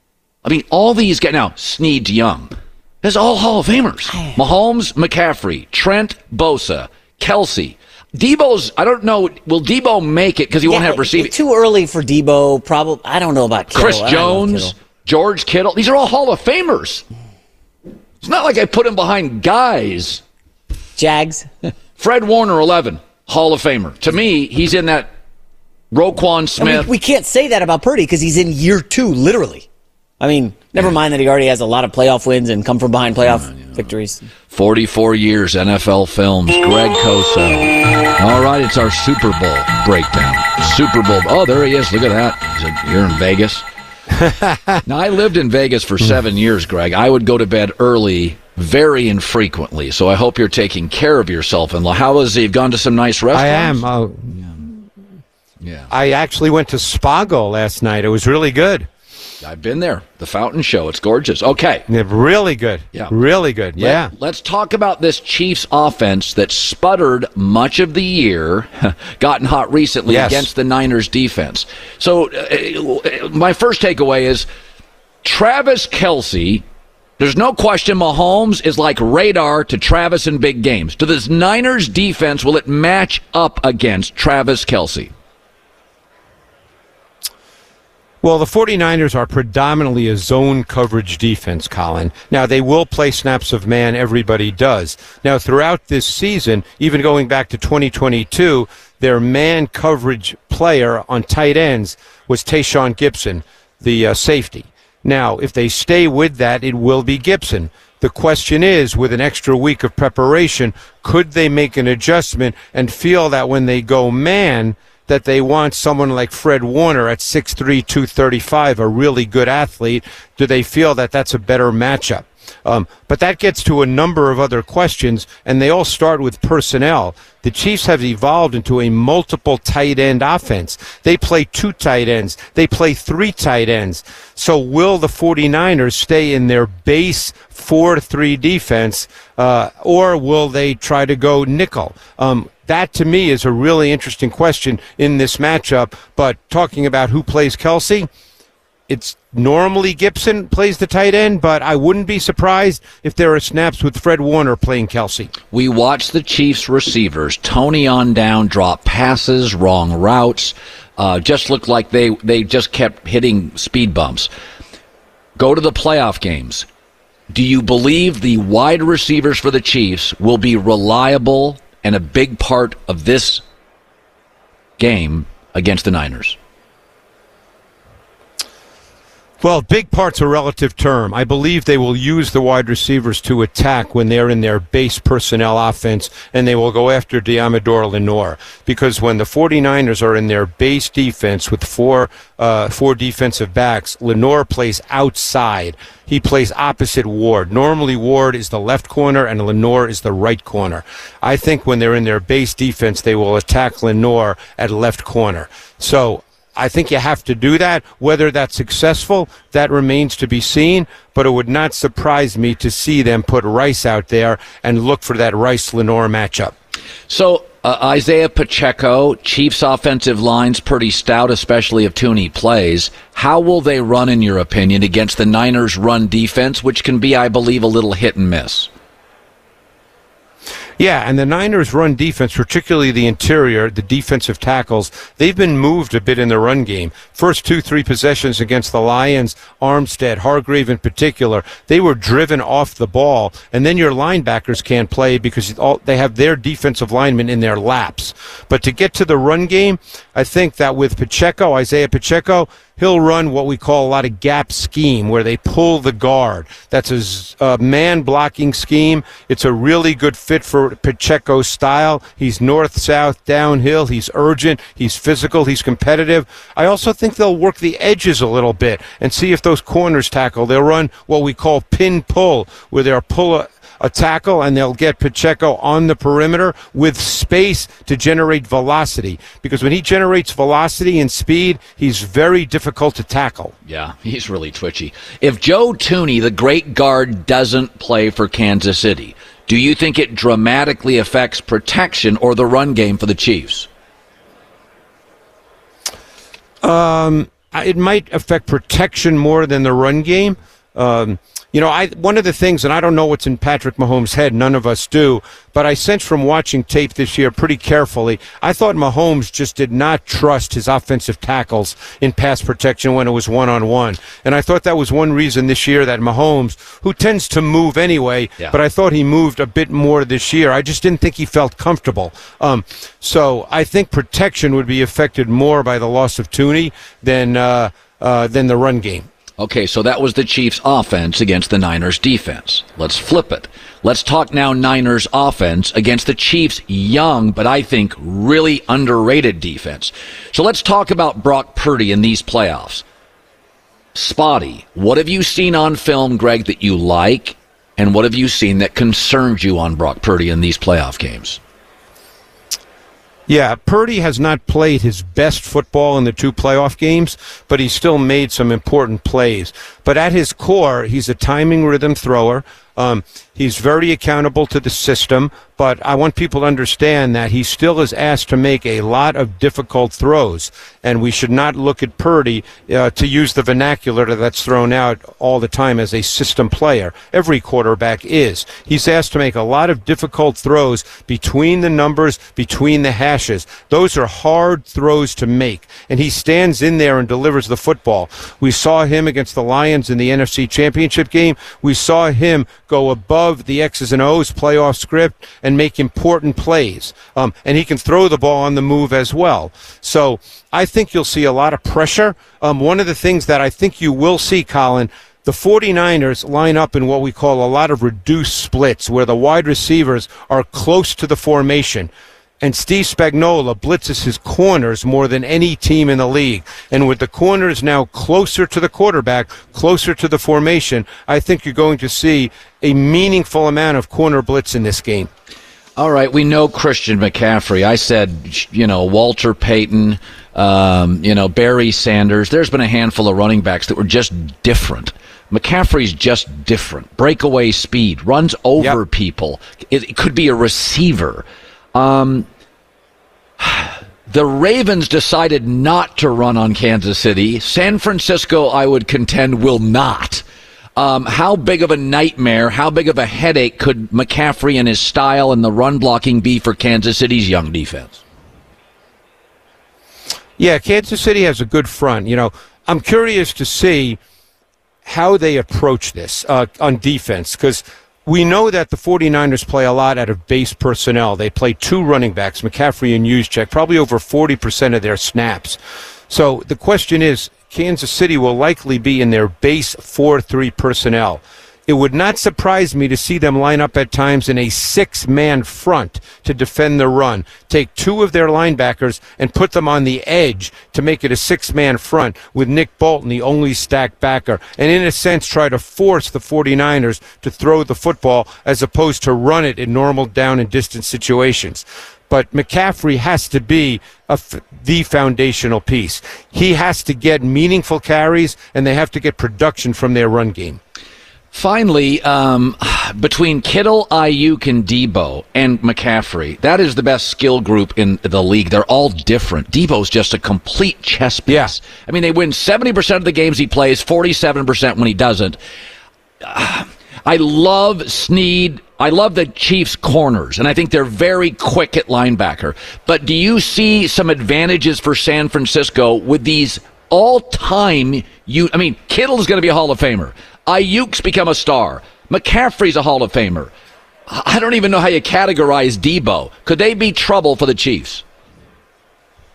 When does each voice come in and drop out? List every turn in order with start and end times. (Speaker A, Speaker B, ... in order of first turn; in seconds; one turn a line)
Speaker A: 0.4-11.3
Speaker B: 10.7-14.7
Speaker A: 13.7-17.1
Speaker A: 18.2-20.2
Speaker B: 21.0-21.7
Speaker A: 22.0-25.1
Speaker A: 25.9-26.9
Speaker B: 26.6-29.7
Speaker B: 30.2-34.2
Speaker A: 33.3-33.9
Speaker A: 34.5-43.6
Speaker C: 44.1-44.8
Speaker A: 44.9-54.6
Speaker C: 53.3-54.3
Speaker A: 55.6-55.9
Speaker C: 55.9-58.9
Speaker A: 59.4-61.9
Speaker C: 61.9-64.1
Speaker A: 63.8-74.5
Speaker C: 70.1-70.5
Speaker A: 75.2-76.7
Speaker A: 77.2-85.1
Speaker C: 88.2-148.1
Speaker C: 148.9-155.3
Speaker A: 155.5-164.3
Speaker A: 165.4-166.7
Speaker A: 167.3-173.4
Speaker A: 174.8-176.4
Speaker C: 179.4-216.5
Speaker A: 217.1-228.7
Speaker C: 230.8-283.6
Speaker A: 283.7-293.7
Speaker C: 296.6-329.1
Speaker A: 329.4-342.8
Speaker A: 343.9-351.4
Speaker C: 353.3-411.9
Speaker C: 412.4-425.1
Speaker A: 425.8-442.3
Speaker A: 443.4-450.2
Speaker A: 450.8-458.0
Speaker C: 460.4-464.0
Speaker C: 464.9-475.6
Speaker C: 476.1-510.6
Speaker A: 511.3-525.4
Speaker C: 521.3-521.5
Speaker A: 526.2-543.5
Speaker A: 544.1-548.0